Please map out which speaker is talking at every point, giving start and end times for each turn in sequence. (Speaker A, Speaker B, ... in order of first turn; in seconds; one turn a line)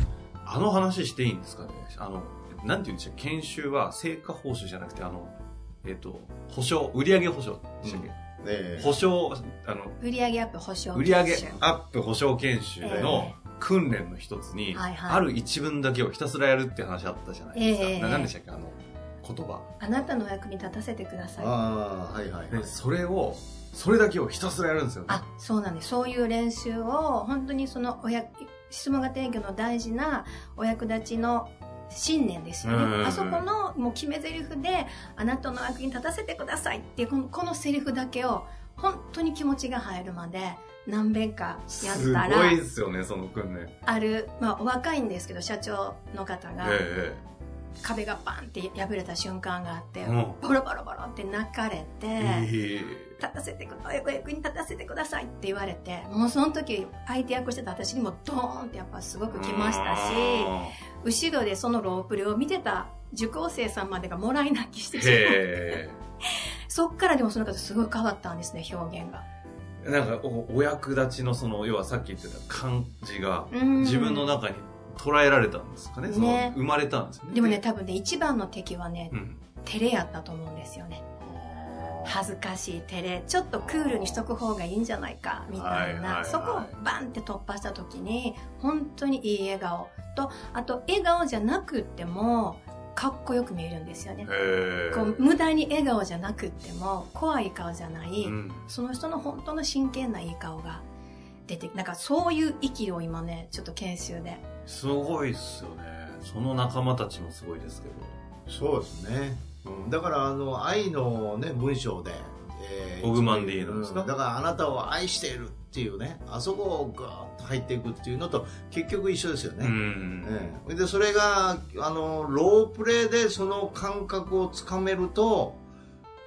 Speaker A: 0.4-8.2
Speaker B: 7.8-8.9
Speaker A: 8.8-10.0
Speaker C: 10.0-11.6
Speaker A: 10.9-19.7
Speaker C: 12.8-13.4
Speaker B: 12.9-13.3
Speaker C: 14.7-15.2
Speaker C: 17.6-18.3
Speaker C: 19.8-21.5
Speaker B: 21.4-22.8
Speaker A: 22.5-25.2
Speaker C: 25.1-42.6
Speaker A: 32.6-33.5
Speaker A: 41.7-43.8
Speaker C: 43.9-46.8
Speaker A: 46.6-47.2
Speaker C: 47.8-52.5
Speaker A: 50.0-50.4
Speaker A: 52.2-53.2
Speaker C: 53.2-65.5
Speaker A: 59.3-60.8
Speaker A: 65.0-66.0
Speaker C: 66.3-69.2
Speaker A: 69.8-77.6
Speaker C: 73.5-74.4
Speaker C: 76.1-76.6
Speaker C: 77.3-81.0
Speaker A: 79.1-79.4
Speaker A: 81.2-82.2
Speaker C: 82.0-94.3
Speaker A: 83.6-84.2
Speaker A: 85.5-86.8
Speaker A: 94.3-95.2
Speaker C: 94.9-100.8
Speaker A: 98.2-98.7
Speaker C: 101.5-104.4
Speaker A: 104.7-108.2
Speaker B: 108.5-125.6
Speaker A: 113.0-114.1
Speaker A: 119.6-120.5